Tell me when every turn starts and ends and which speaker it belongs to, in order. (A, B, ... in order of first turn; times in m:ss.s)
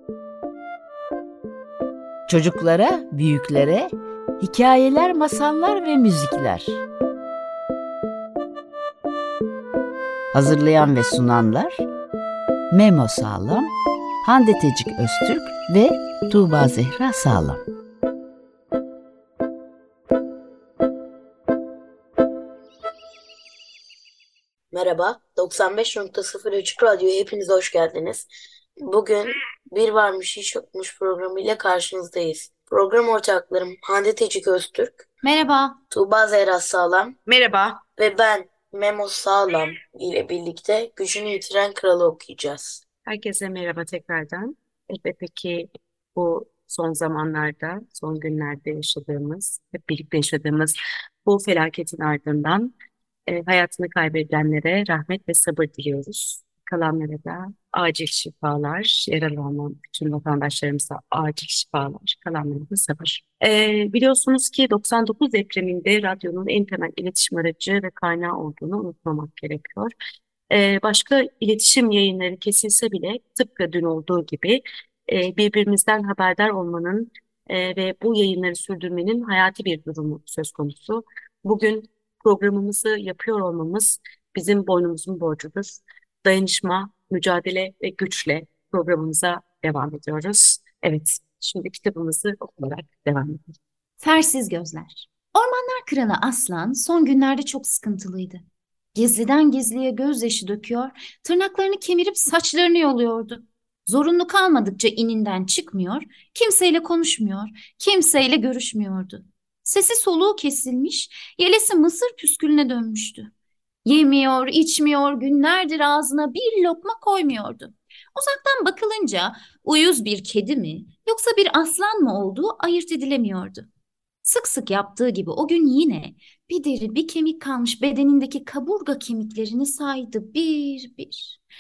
0:02.3-0:06.8 A
0:10.3-0:11.8 A
0:12.7-0:13.7 A
0:14.2-0:17.6 A
0:24.7-0:28.3 B
0:28.8-0:35.0 B
0:35.2-0:35.8 C
0:35.9-0:37.2 B
0:37.3-0:37.8 D
0:38.0-0:42.8 B
0:43.1-0:52.7 D
0:53.3-1:09.9 D
1:10.5-1:33.5 D
1:34.0-1:38.4 C
1:39.0-1:53.3 C
1:53.8-2:03.7 C
2:04.2-2:11.4 C